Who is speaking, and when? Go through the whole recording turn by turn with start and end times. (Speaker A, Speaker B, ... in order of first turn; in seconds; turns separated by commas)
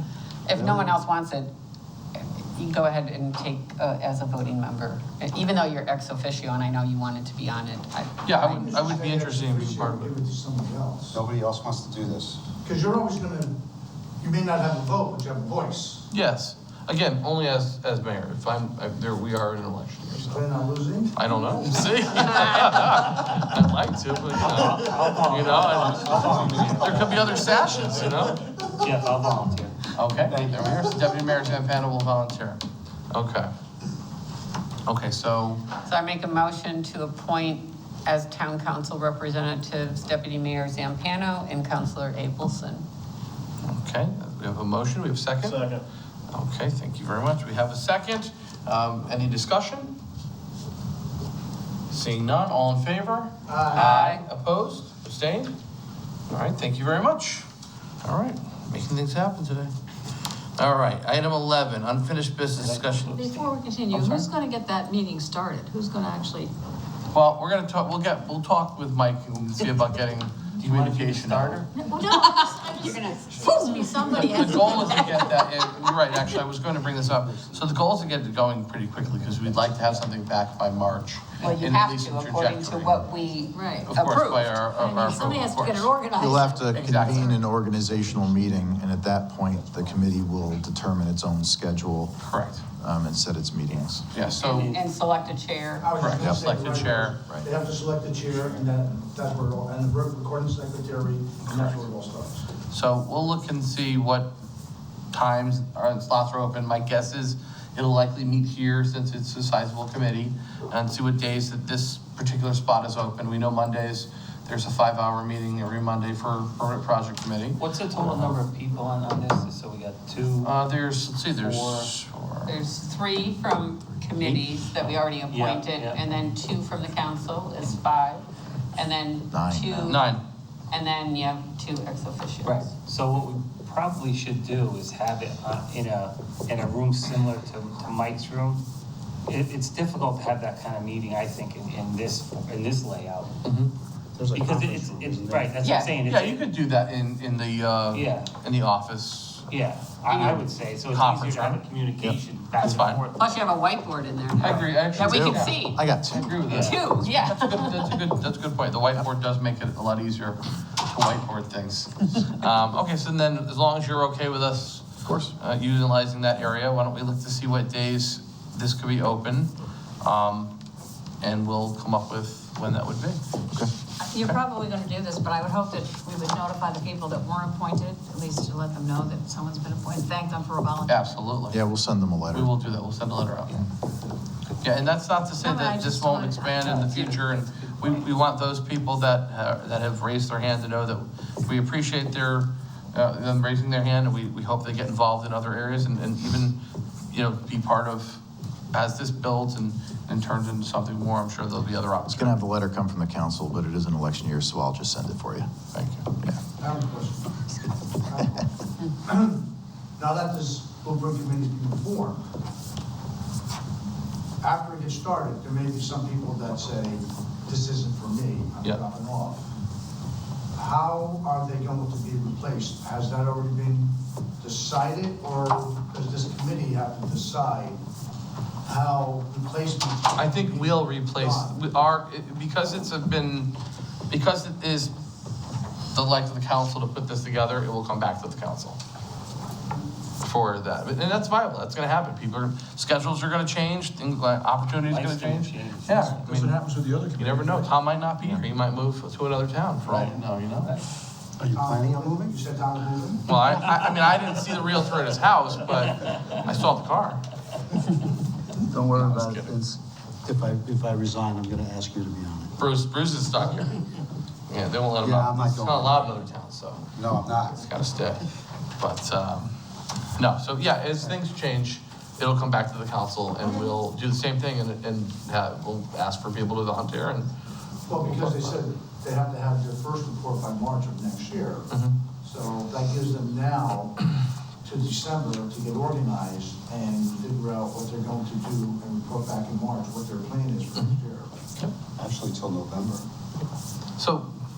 Speaker A: 0.5-1.5, Speaker B: 0.5-0.9, Speaker A: 2.1-9.0, Speaker C: 8.2-10.1, Speaker D: 8.5-11.2, Speaker B: 11.1-12.4, Speaker D: 12.6-13.6, Speaker D: 14.2-16.1, Speaker C: 16.1-20.4, Speaker D: 20.2-22.1, Speaker C: 21.1-28.4, Speaker E: 24.4-27.2, Speaker E: 28.7-29.9, Speaker C: 29.9-33.5, Speaker B: 30.3-30.6, Speaker C: 34.9-35.6, Speaker A: 35.8-42.8, Speaker C: 43.6-45.7, Speaker C: 46.3-50.0, Speaker C: 51.9-55.5, Speaker D: 53.5-54.0, Speaker A: 53.7-54.2, Speaker C: 56.3-57.5, Speaker C: 58.0-59.7, Speaker C: 60.6-63.3, Speaker E: 62.6-63.5, Speaker F: 63.1-66.5, Speaker C: 63.9-64.3, Speaker C: 67.1-71.7, Speaker E: 70.6-71.6, Speaker F: 71.8-75.5, Speaker A: 72.0-75.0, Speaker C: 74.1-83.0, Speaker A: 81.4-84.4, Speaker F: 83.5-87.4, Speaker C: 83.9-86.0, Speaker G: 86.1-92.1, Speaker C: 86.8-87.3, Speaker C: 92.2-92.6, Speaker G: 92.8-94.1, Speaker C: 94.1-94.5, Speaker A: 94.3-96.2, Speaker E: 94.5-94.8, Speaker D: 95.8-102.5, Speaker C: 96.0-97.2, Speaker G: 96.2-96.5, Speaker C: 101.4-101.8, Speaker C: 102.7-104.3, Speaker C: 105.1-118.3, Speaker E: 117.6-120.6, Speaker C: 120.4-122.5, Speaker E: 121.2-121.9, Speaker A: 122.5-128.2, Speaker E: 125.3-126.0, Speaker A: 128.8-130.1, Speaker G: 129.3-129.9, Speaker C: 129.8-130.2, Speaker A: 130.7-132.7, Speaker E: 132.4-138.6, Speaker E: 139.2-143.3, Speaker C: 143.4-143.7, Speaker B: 144.2-145.5, Speaker E: 144.3-146.4, Speaker A: 145.6-146.0, Speaker C: 146.1-149.4, Speaker E: 147.9-148.3, Speaker E: 149.5-153.4, Speaker C: 150.9-151.6, Speaker C: 152.6-153.0, Speaker A: 153.2-155.8, Speaker C: 154.4-170.5, Speaker G: 154.9-156.6, Speaker A: 156.5-157.9, Speaker E: 156.5-156.9, Speaker G: 165.0-165.3, Speaker C: 171.2-173.2, Speaker F: 174.0-181.2, Speaker C: 180.8-181.6, Speaker G: 181.5-182.5, Speaker C: 182.3-183.6, Speaker C: 184.6-196.6, Speaker F: 185.4-187.3, Speaker C: 197.1-198.2, Speaker C: 198.7-202.4, Speaker G: 202.1-205.5, Speaker C: 205.7-206.4, Speaker D: 206.6-207.3, Speaker D: 208.0-209.4, Speaker D: 210.0-212.2, Speaker D: 214.4-219.4, Speaker D: 220.5-227.8, Speaker D: 228.6-231.6, Speaker C: 230.1-233.5, Speaker C: 234.1-234.9, Speaker C: 235.9-238.8, Speaker C: 240.2-246.6, Speaker E: 244.9-246.3, Speaker D: 245.9-247.7, Speaker C: 247.2-250.7, Speaker B: 251.4-252.3, Speaker D: 251.5-253.2, Speaker C: 253.2-257.2, Speaker B: 258.6-262.5, Speaker C: 258.9-259.5, Speaker C: 262.6-263.8, Speaker C: 264.5-268.2, Speaker B: 265.0-266.0, Speaker B: 266.9-267.6, Speaker C: 268.8-269.5, Speaker C: 270.1-277.3, Speaker D: 277.9-281.7, Speaker C: 278.0-278.6, Speaker C: 281.7-281.9, Speaker D: 282.2-284.1, Speaker D: 284.6-291.4, Speaker B: 292.0-293.1, Speaker C: 294.0-294.3